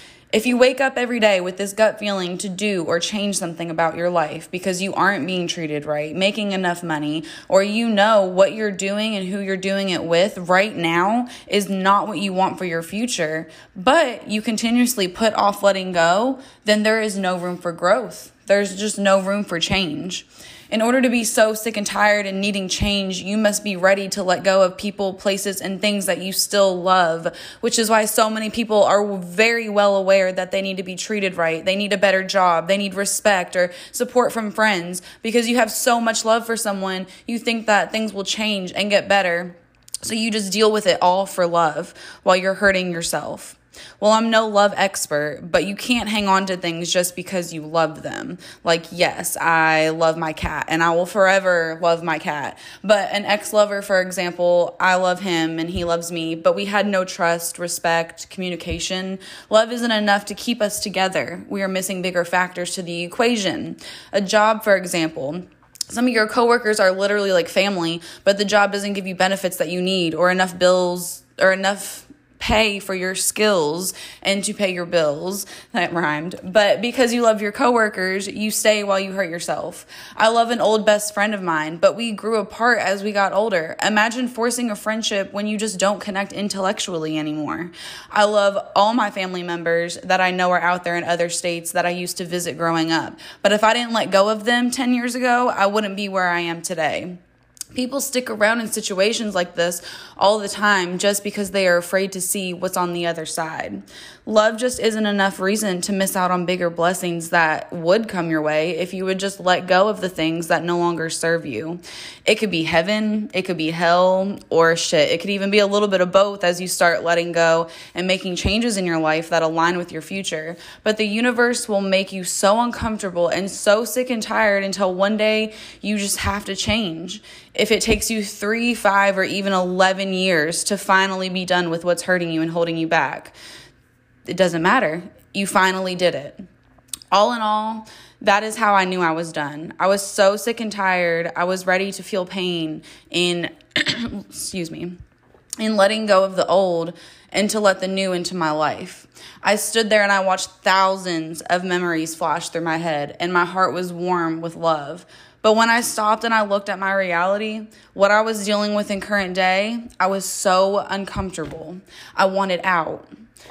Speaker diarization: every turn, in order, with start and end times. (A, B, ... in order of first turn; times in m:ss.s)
0:00.3-1:37.2 A
1:37.7-2:13.3 A
2:14.3-2:16.4 A
2:17.1-2:25.0 A
2:25.6-2:43.1 A